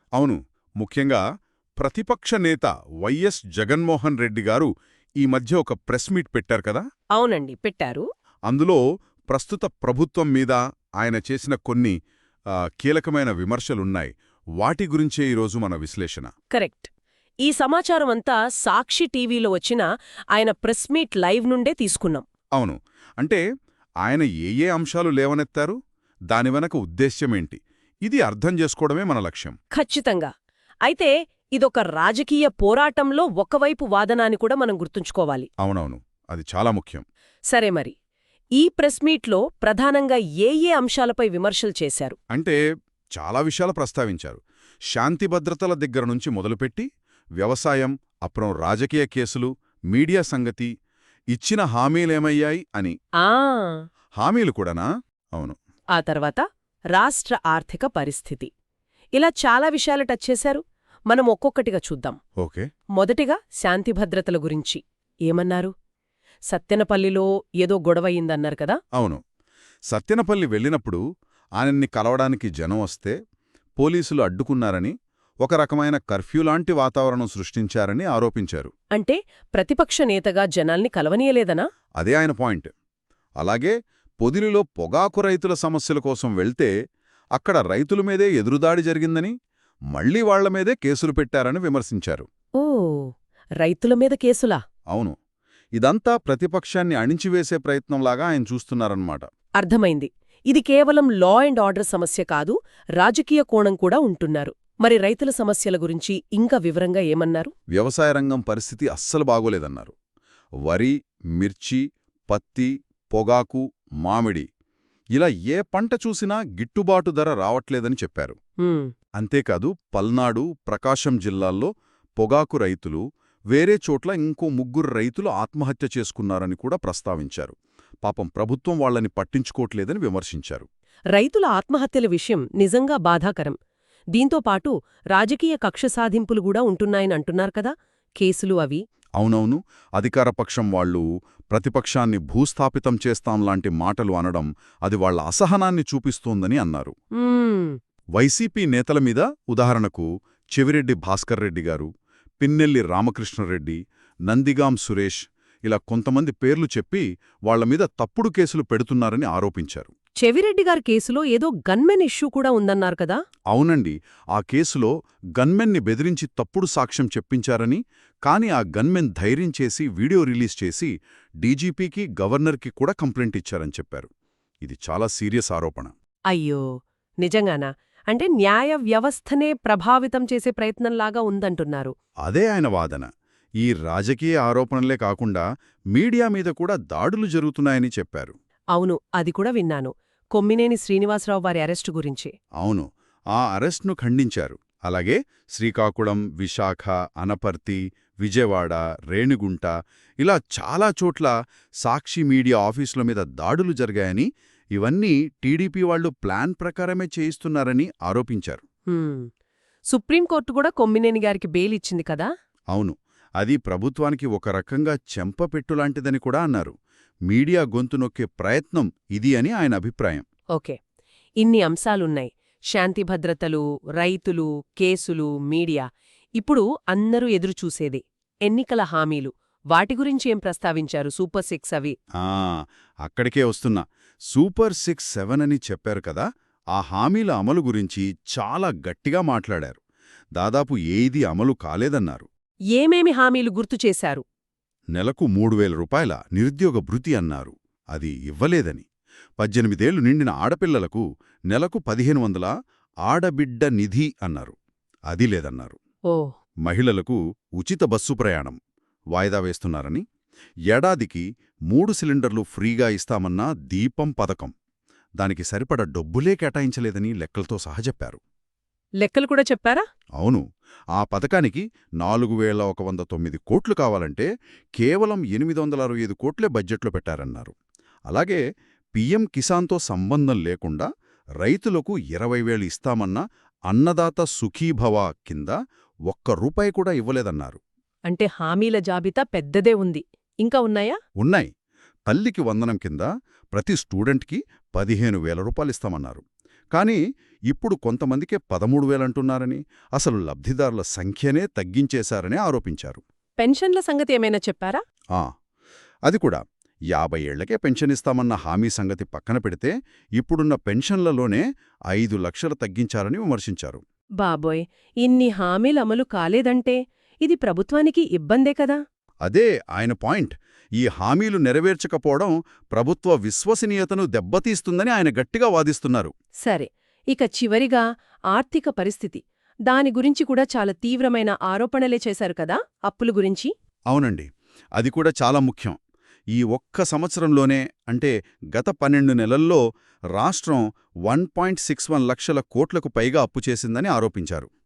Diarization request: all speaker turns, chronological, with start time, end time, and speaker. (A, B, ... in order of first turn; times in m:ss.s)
0:00.2-0:01.2 A
0:01.8-0:04.7 A
0:05.2-0:06.8 A
0:07.2-0:08.0 B
0:08.5-0:12.0 A
0:12.6-0:16.3 A
0:16.5-0:16.9 B
0:17.4-0:22.2 B
0:22.6-0:23.4 A
0:24.0-0:25.8 A
0:26.3-0:29.6 A
0:29.7-0:30.3 B
0:30.9-0:35.5 B
0:35.6-0:37.0 A
0:37.5-0:38.0 B
0:38.6-0:42.2 B
0:42.3-0:42.6 A
0:43.2-0:46.9 A
0:47.4-0:50.7 A
0:51.3-0:53.0 A
0:53.2-0:53.8 B
0:54.2-0:55.6 A
0:56.0-0:56.4 B
0:57.0-0:58.5 B
0:59.2-1:02.2 B
1:02.4-1:02.7 A
1:03.0-1:05.7 B
1:06.5-1:08.8 B
1:09.0-1:09.2 A
1:09.9-1:11.0 A
1:11.6-1:13.2 A
1:13.8-1:14.9 A
1:15.4-1:18.7 A
1:18.9-1:21.6 B
1:22.0-1:22.7 A
1:23.4-1:26.7 A
1:27.4-1:29.3 A
1:29.9-1:32.3 A
1:32.6-1:34.6 B
1:34.9-1:35.2 A
1:35.8-1:39.3 A
1:39.6-1:47.5 B
1:47.7-1:49.9 A
1:50.7-1:54.5 A
1:55.2-1:58.4 A
1:58.6-1:58.9 B
1:59.2-2:10.7 A
2:11.1-2:13.6 B
2:14.1-2:18.8 B
2:19.2-2:26.9 A
2:27.2-2:27.8 B
2:28.2-2:31.9 A
2:32.4-2:39.9 A
2:40.2-2:43.2 B
2:43.5-2:54.1 A
2:54.6-2:55.9 A
2:56.3-2:56.6 B
2:57.2-3:01.9 B
3:02.2-3:03.1 A
3:03.6-3:08.3 A
3:08.8-3:12.3 B
3:12.6-3:21.3 A
3:21.8-3:28.6 A
3:28.9-3:29.3 B
3:29.9-3:32.3 B
3:32.7-3:36.7 A
3:37.3-3:40.2 A
3:41.4-3:45.8 B
3:46.4-3:52.0 B
3:52.2-3:59.8 A
4:00.4-4:02.3 A
4:02.8-4:04.2 B
4:05.0-4:08.9 A
4:09.4-4:12.5 A
4:13.1-4:14.6 A
4:15.1-4:15.8 A
4:16.6-4:18.6 A
4:19.1-4:20.0 A
4:20.7-4:24.5 A
4:25.2-4:28.2 A
4:29.0-4:29.8 B
4:30.2-4:30.4 A
4:31.0-4:37.5 A
4:38.1-4:38.4 A
4:39.0-4:40.9 A
4:41.4-4:45.6 A
4:46.1-4:47.6 A
4:48.1-4:51.0 B
4:51.2-4:51.5 A
4:52.1-5:03.0 A
5:03.4-5:04.8 B
5:06.1-5:06.4 A
5:06.9-5:13.8 A
5:14.2-5:18.8 B
5:19.2-5:26.1 A
5:26.4-5:33.5 B
5:33.9-5:35.8 A
5:36.3-5:39.6 A
5:40.2-5:44.5 A